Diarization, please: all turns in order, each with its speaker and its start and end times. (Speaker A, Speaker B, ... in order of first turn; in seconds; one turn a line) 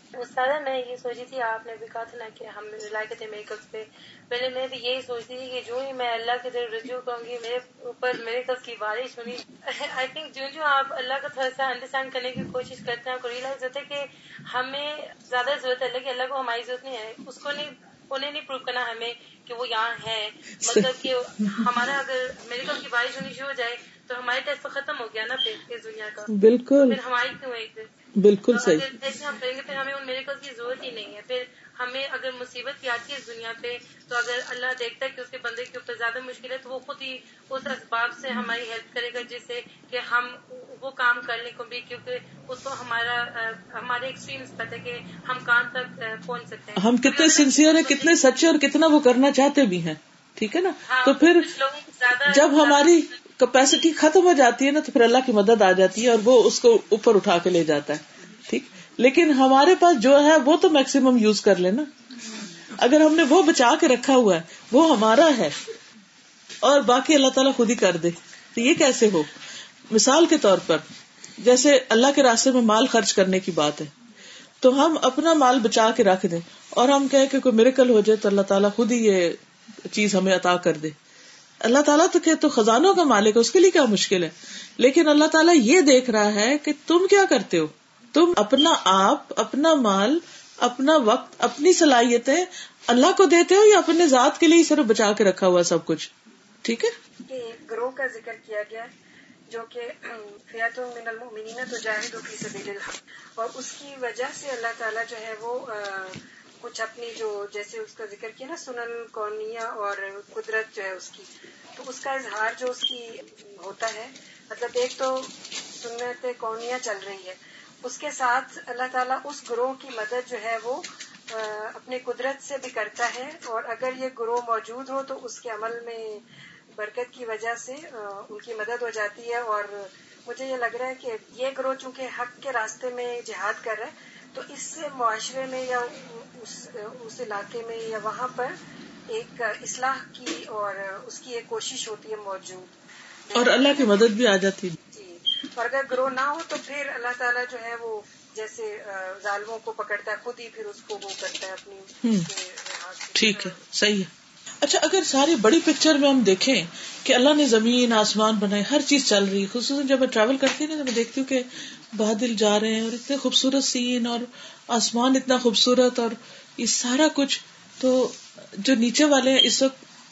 Speaker A: 0.2-26.3
Speaker B: 20.6-20.9
Speaker B: 26.3-27.0
Speaker A: 26.8-27.9
Speaker B: 28.2-28.9
Speaker A: 28.5-48.3
Speaker B: 46.8-51.5
Speaker A: 50.9-53.0
Speaker B: 52.3-61.9
Speaker B: 62.8-65.5
Speaker B: 66.6-69.3
Speaker B: 69.9-70.8
Speaker B: 71.4-73.9
Speaker B: 74.6-79.4
Speaker B: 79.9-81.0
Speaker B: 81.6-96.1
Speaker B: 96.6-96.9
Speaker C: 97.3-98.9
Speaker C: 99.5-126.2
Speaker C: 126.8-138.6
Speaker C: 139.1-142.7
Speaker C: 143.3-144.1
Speaker B: 143.3-144.8
Speaker C: 144.9-153.6
Speaker B: 153.2-154.1
Speaker B: 154.6-169.8